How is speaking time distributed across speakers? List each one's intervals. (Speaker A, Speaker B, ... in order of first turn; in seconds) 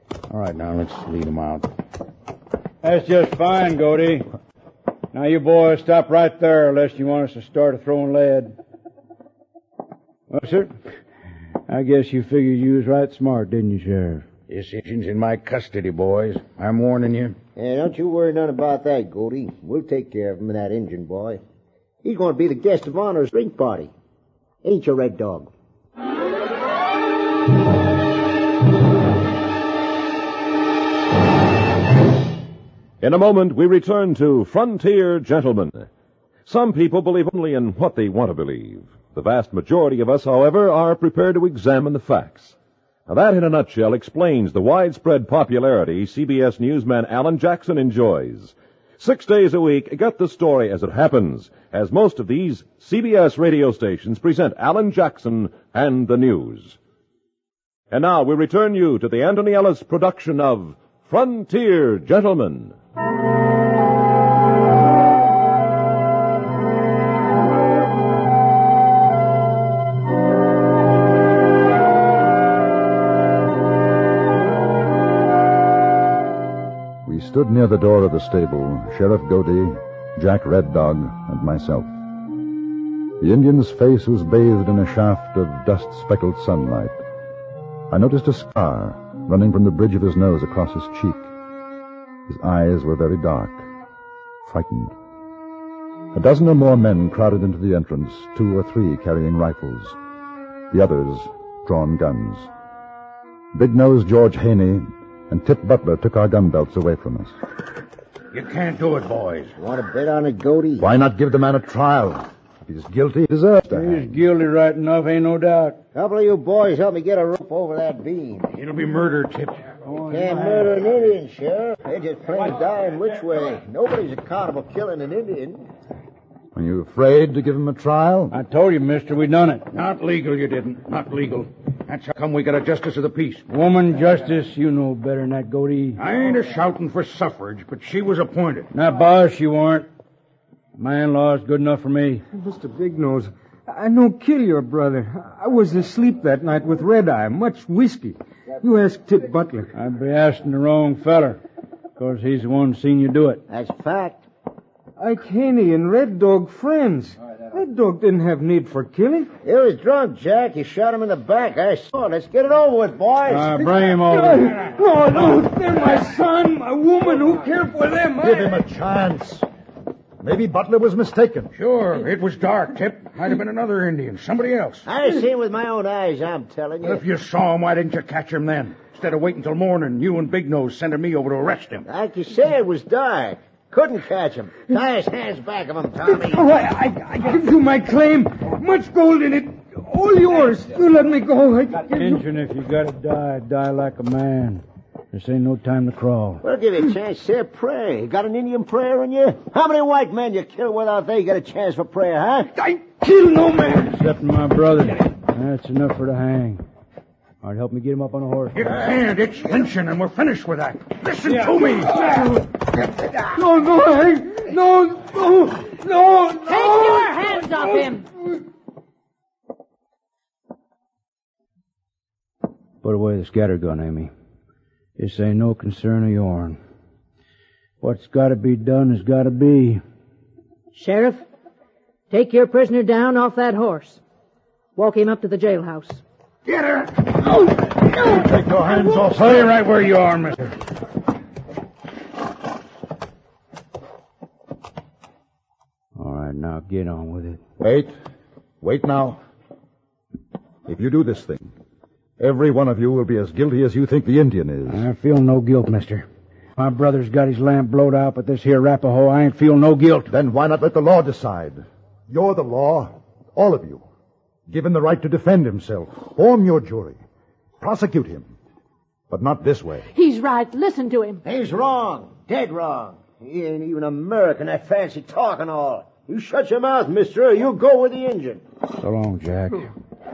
Speaker A: 0.3-1.7, 14.5-17.4, 108.3-109.5, 118.5-119.8, 129.7-133.5, 136.0-138.7, 171.6-174.9, 176.8-181.9, 208.6-212.4, 236.5-240.5
Speaker B: 2.8-4.3, 5.1-8.6, 10.3-10.8, 11.7-14.3, 113.7-115.8, 119.8-120.8, 128.3-129.7, 133.5-136.0, 138.7-139.9, 140.8-142.2, 149.7-151.4, 152.0-153.4, 163.3-164.6, 191.9-196.4, 203.9-206.6, 207.4-208.7, 222.8-224.1, 225.0-226.6, 227.8-229.8, 246.0-247.4, 254.7-260.1, 278.8-279.7
Speaker C: 17.6-21.4, 22.0-23.9, 24.6-25.5, 109.6-110.9, 115.9-118.5, 120.1-125.7, 153.5-154.2, 159.4-163.7, 174.9-177.0, 181.9-186.5, 196.4-202.5, 271.2-278.4
Speaker D: 33.0-35.9, 36.5-42.5, 43.1-56.8, 57.9-62.8
Speaker E: 77.0-81.9, 83.2-87.0, 87.9-91.3, 92.3-93.7, 94.5-94.9, 96.1-100.0, 100.7-102.5, 103.5-107.4, 110.8-114.2, 126.5-128.4, 168.2-169.5, 170.2-171.5, 238.1-239.4, 247.6-247.9, 248.6-249.2, 250.7-251.5, 252.2-254.9, 260.1-263.9, 264.5-267.0, 267.6-268.3, 269.1-269.9
Speaker F: 142.3-149.7, 155.0-159.3, 163.9-168.6, 186.1-192.2, 202.6-203.9, 211.9-212.4, 213.3-217.4
Speaker G: 216.5-218.1, 230.7-231.2, 232.1-234.0, 234.8-236.0, 269.9-271.2